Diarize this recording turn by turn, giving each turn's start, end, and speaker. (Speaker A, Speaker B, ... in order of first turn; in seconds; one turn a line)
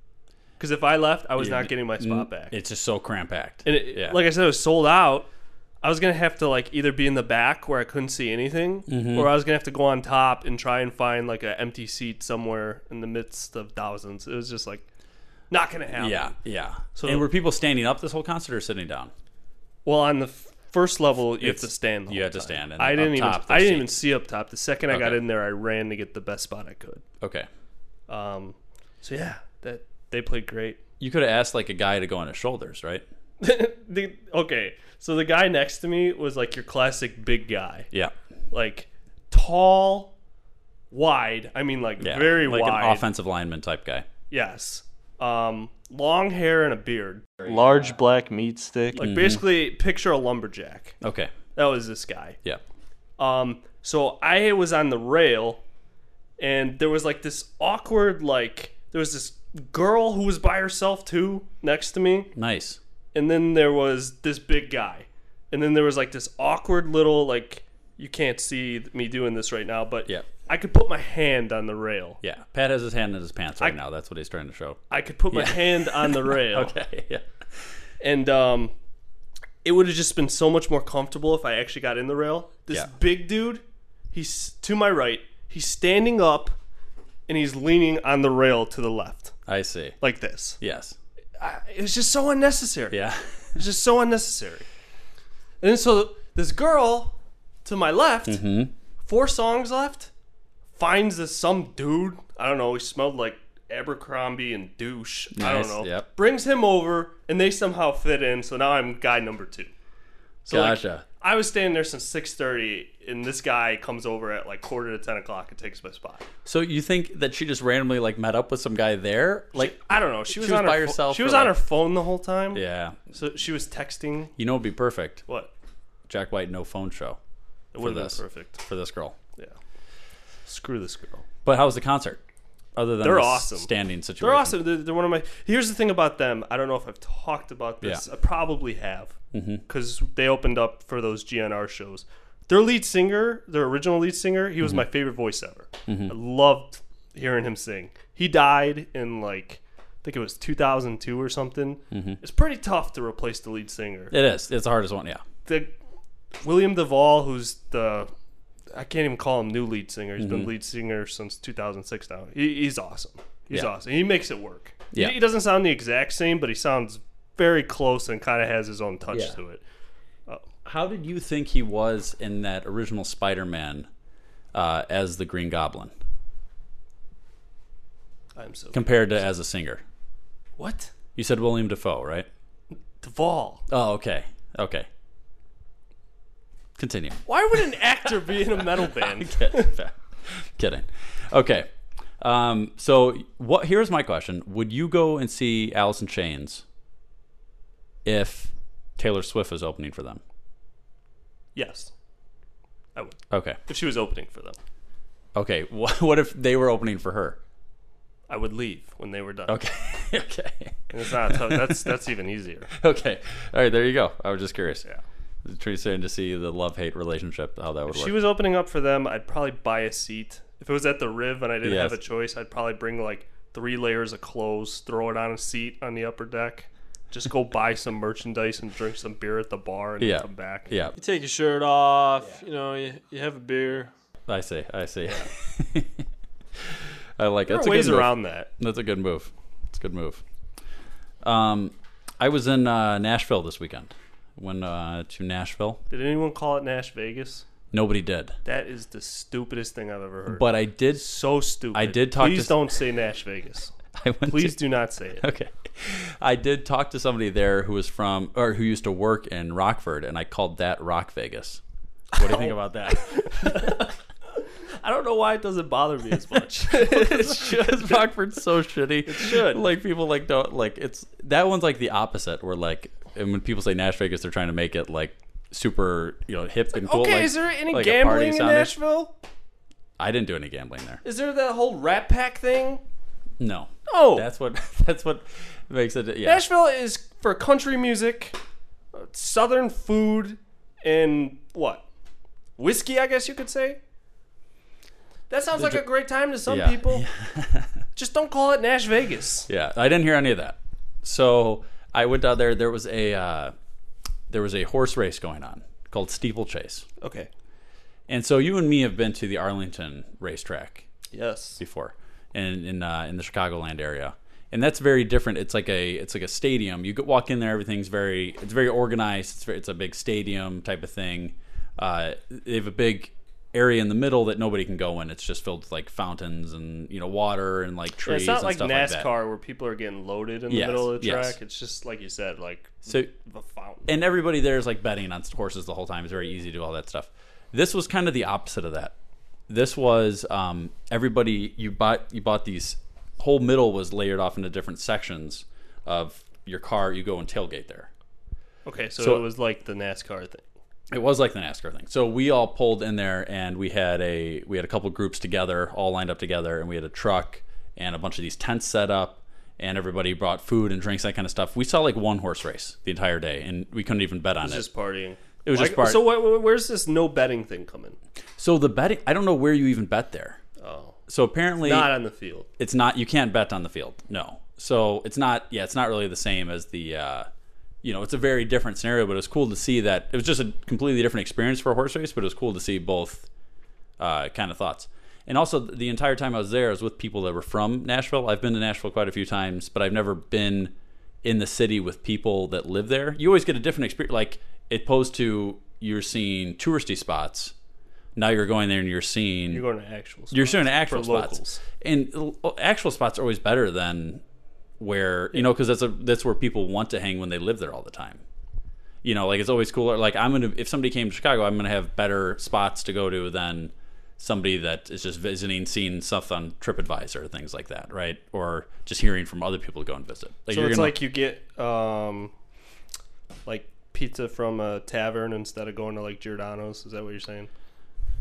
Speaker A: 0.6-2.5
Speaker B: 1.4-4.2
Speaker A: 3.6-5.3
Speaker A: 5.8-14.8
Speaker B: 8.9-9.3
Speaker A: 15.5-16.4
Speaker B: 15.9-19.1
Speaker A: 16.9-17.3
Speaker A: 19.8-27.0
Speaker B: 21.4-24.0
Speaker B: 24.9-25.2
Speaker B: 27.2-27.5
Speaker A: 28.1-30.8
Speaker B: 31.0-33.0
Speaker A: 33.4-37.9
Speaker A: 38.5-40.1
Speaker A: 40.9-43.1
Speaker B: 42.0-44.0
Speaker A: 44.3-51.0
Speaker B: 49.0-49.5
Speaker B: 51.0-51.3
Speaker A: 51.5-52.4
Speaker A: 53.2-55.6
Speaker A: 56.4-62.3
Speaker B: 62.3-62.8
Speaker A: 63.1-72.2
Speaker B: 72.2-77.2
Speaker A: 74.9-76.7
Speaker A: 78.0-78.7
Speaker A: 79.6-86.5
Speaker A: 87.3-89.3
Speaker B: 89.5-90.0
Speaker A: 90.0-90.6
Speaker B: 90.6-91.0
Speaker A: 91.4-93.0
Speaker B: 92.9-93.6
Speaker A: 93.5-94.7
Speaker A: 95.6-98.4
Speaker B: 98.2-98.7
Speaker A: 99.0-100.1
Speaker A: 100.8-109.7
Speaker B: 105.3-106.1
Speaker A: 110.4-116.2
Speaker B: 110.5-111.0
Speaker B: 116.4-121.6
Speaker A: 119.5-124.3
Speaker B: 122.5-123.0
Speaker B: 124.4-125.2
Speaker B: 126.1-127.2
Speaker A: 127.7-128.6
Speaker B: 127.8-129.2
Speaker A: 130.4-131.2
Speaker B: 131.4-132.2
Speaker B: 132.8-134.6
Speaker A: 133.0-139.2
Speaker B: 139.3-139.6
Speaker A: 139.7-154.1
Speaker B: 145.9-146.1
Speaker B: 151.9-152.2
Speaker B: 154.1-155.2
Speaker A: 155.4-155.7
Speaker A: 156.4-158.1
Speaker A: 158.7-169.6
Speaker B: 160.2-160.5
Speaker B: 164.9-165.2
Speaker B: 169.1-169.4
Speaker B: 170.6-173.9
Speaker B: 174.5-175.9
Speaker A: 178.3-179.2
Speaker B: 178.7-179.8
Speaker A: 180.6-180.9
Speaker B: 181.2-182.3
Speaker A: 183.0-183.7
Speaker B: 183.7-184.9
Speaker B: 186.8-187.6
Speaker A: 187.2-189.7
Speaker B: 188.4-191.7
Speaker B: 192.2-196.6
Speaker B: 198.0-200.2
Speaker A: 201.5-201.9
Speaker A: 202.9-204.6
Speaker B: 203.3-203.6
Speaker B: 205.3-207.4
Speaker A: 208.3-209.6
Speaker B: 209.5-212.0
Speaker A: 210.9-212.7
Speaker B: 212.7-214.8
Speaker B: 215.4-218.3
Speaker A: 217.9-231.2
Speaker B: 221.6-222.0
Speaker B: 230.0-230.9
Speaker C: 231.1-233.9
Speaker A: 232.1-232.4
Speaker B: 234.2-236.0
Speaker B: 236.6-240.2
Speaker A: 237.4-238.5
Speaker B: 241.2-245.8
Speaker A: 245.9-247.4
Speaker B: 247.7-248.3
Speaker A: 248.4-253.7
Speaker B: 250.3-251.1
Speaker B: 251.7-252.6
Speaker B: 253.9-254.6
Speaker A: 254.2-255.2
Speaker B: 255.2-261.6
Speaker B: 262.1-263.8
Speaker A: 262.2-263.9
Speaker A: 264.8-268.1
Speaker B: 266.7-278.7
Speaker A: 269.0-269.7
Speaker A: 276.7-279.1
Speaker B: 280.0-281.0
Speaker A: 281.0-282.8
Speaker B: 283.4-286.4
Speaker A: 283.9-284.3
Speaker A: 286.2-288.4
Speaker A: 288.9-291.8
Speaker A: 292.6-293.8
Speaker A: 295.3-297.0
Speaker B: 295.5-295.9
Speaker B: 296.4-297.8
Speaker A: 297.9-299.5
Speaker B: 299.5-303.5
Speaker B: 304.3-306.9
Speaker A: 307.0-307.3
Speaker B: 308.1-310.9
Speaker A: 311.1-311.6
Speaker B: 311.6-329.1
Speaker A: 328.0-334.0
Speaker B: 330.5-331.4
Speaker B: 332.9-333.1
Speaker B: 333.9-338.9
Speaker B: 339.5-347.9
Speaker A: 348.6-350.5
Speaker B: 349.0-349.3
Speaker B: 350.9-364.7
Speaker A: 364.4-368.0
Speaker B: 365.4-366.1
Speaker B: 368.4-370.4
Speaker A: 370.6-371.0
Speaker B: 371.1-371.9
Speaker A: 371.6-372.5
Speaker B: 372.6-377.3
Speaker B: 377.8-383.3
Speaker B: 384.0-397.5
Speaker B: 398.1-399.6
Speaker A: 399.5-401.6
Speaker B: 400.3-404.2
Speaker B: 404.8-408.2
Speaker B: 409.0-421.0
Speaker A: 420.5-422.3
Speaker A: 423.4-427.5